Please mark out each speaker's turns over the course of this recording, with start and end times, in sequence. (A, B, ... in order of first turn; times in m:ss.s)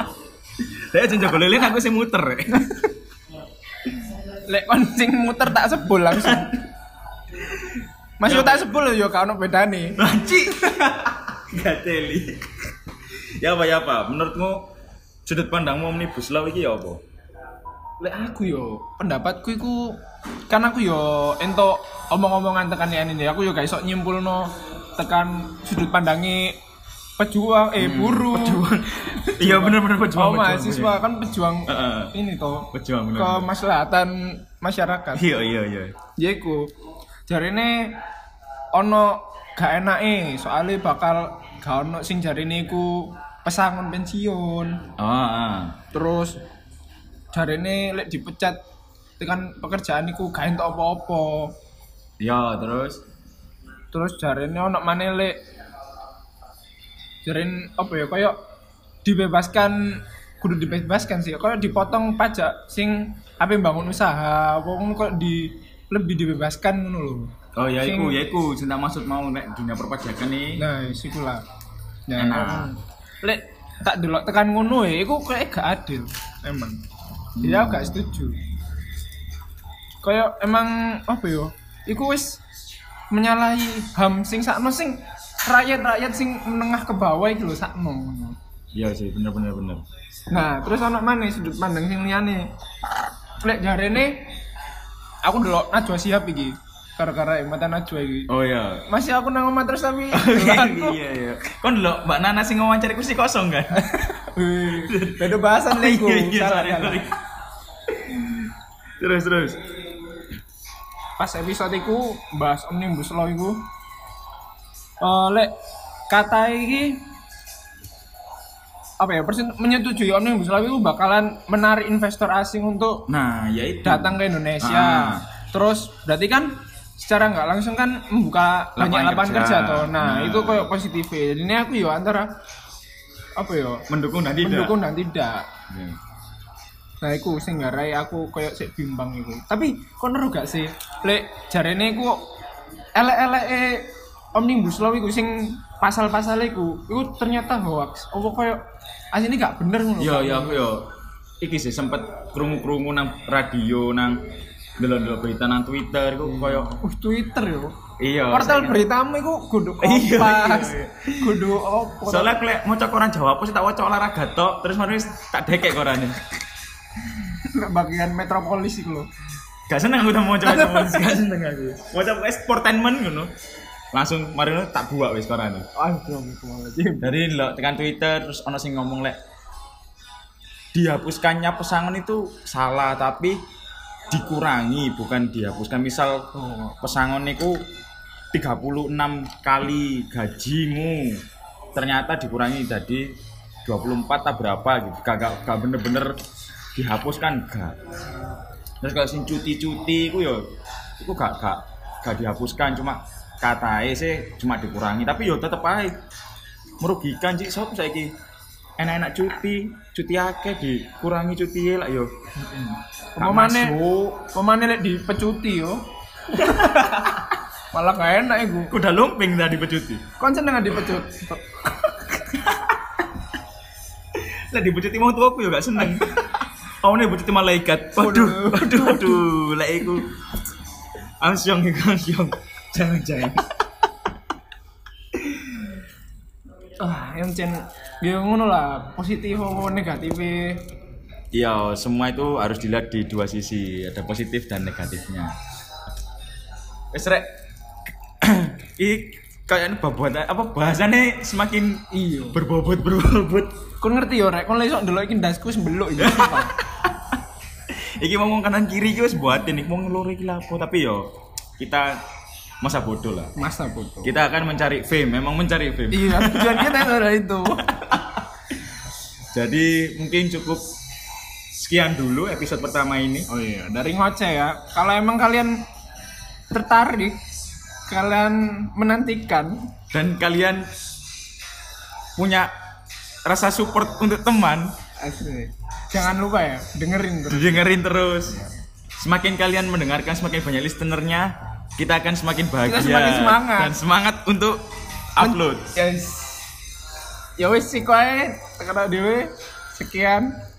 0:00.6-0:02.6 A
0:02.6-0:02.8 B
0:04.5-0:06.6 B
0:06.1-0:06.5 A
0:08.2-0:10.0 B
0:08.2-0:08.8 A
0:10.0-0:14.7 A
0:15.3-0:17.0 A
0:18.0-0:26.6 B
0:27.2-0:28.6 B
0:27.8-0:31.0 A
0:29.2-0:35.2 B
0:31.7-0:32.1 A
0:32.7-0:33.5 A
0:35.1-0:36.0 A
0:36.2-0:36.7 B
0:37.3-0:38.0 B
0:38.7-0:44.8 B
0:45.0-0:45.8 A
0:45.9-0:46.4 B
0:47.3-0:48.6 B
0:49.2-0:51.6 B
0:52.2-0:53.0 A
0:53.9-0:55.4 B
0:57.3-0:58.4 B
0:59.0-1:07.3 B
1:07.6-1:10.6 A
1:07.8-1:08.2 B
1:10.6-1:11.4 B
1:12.1-1:16.8 B
1:12.2-1:12.7 A
1:17.4-1:18.0 A
1:17.4-1:18.4 B
1:20.0-1:22.4 B
1:23.1-1:28.4 B
1:28.7-1:29.8 A
1:30.3-1:32.5 B
1:33.4-1:34.4 B
1:35.2-1:38.3 B
1:38.3-1:38.8 A
1:38.9-1:41.0 B
1:40.1-1:43.9 A
1:43.8-1:47.0 B
1:44.8-1:47.2 A
1:48.0-1:48.5 A
1:49.0-1:49.6 A
1:51.2-1:53.6 B
1:55.0-1:55.5 B
1:56.1-1:57.0 B
1:59.0-2:03.1 B
2:03.1-2:05.2 A
2:03.8-2:12.3 B
2:08.8-2:10.7 A
2:13.4-2:13.9 B
2:13.9-2:14.8 A
2:14.4-2:15.5 B
2:15.7-2:16.0 A
2:17.0-2:22.3 B
2:23.0-2:28.6 B
2:29.1-2:30.6 B
2:30.0-2:34.2 A
2:34.8-2:36.8 A
2:36.2-2:37.8 B
2:38.0-2:38.8 A
2:38.3-2:42.3 B
2:39.8-2:41.4 A
2:42.1-2:46.3 A
2:47.2-2:49.1 B
2:49.7-2:53.3 A
2:50.4-2:51.1 B
2:53.9-2:55.7 A
2:55.8-2:57.1 B
2:57.0-2:59.2 A
3:00.7-3:03.4 A
3:04.1-3:06.3 A
3:06.3-3:06.8 B
3:06.8-3:07.6 A
3:08.3-3:11.2 A
3:11.8-3:16.2 A
3:16.8-3:17.8 A
3:18.8-3:20.4 A
3:21.0-3:26.0 A
3:26.8-3:28.1 A
3:28.8-3:32.1 A
3:32.4-3:38.7 B
3:33.2-3:33.8 A
3:38.7-3:40.0 A
3:40.2-3:42.7 B
3:44.2-3:46.2 A
3:45.8-3:46.2 B
3:46.8-3:50.1 A
3:48.0-3:49.2 B
3:51.2-3:53.4 A
3:56.8-4:00.6 B
4:01.3-4:05.3 A
4:06.9-4:07.3 A
4:08.2-4:13.5 A
4:11.9-4:12.4 B
4:13.8-4:16.6 B
4:16.0-4:16.9 A
4:17.7-4:21.0 A
4:21.6-4:22.0 A
4:22.6-4:23.3 A
4:23.4-4:24.1 B
4:24.0-4:26.9 A
4:25.9-4:27.7 B
4:27.7-4:28.2 A
4:29.3-4:30.6 A
4:31.5-4:33.3 A
4:33.3-4:35.6 B
4:36.5-4:37.2 B
4:37.9-4:39.7 B
4:39.9-4:40.7 A
4:42.2-4:42.5 A
4:43.2-4:44.7 A
4:45.0-4:47.7 B
4:47.3-4:54.6 A
4:52.6-4:53.7 B
4:55.2-4:55.7 A
4:55.2-4:56.4 B
4:57.4-5:00.3 B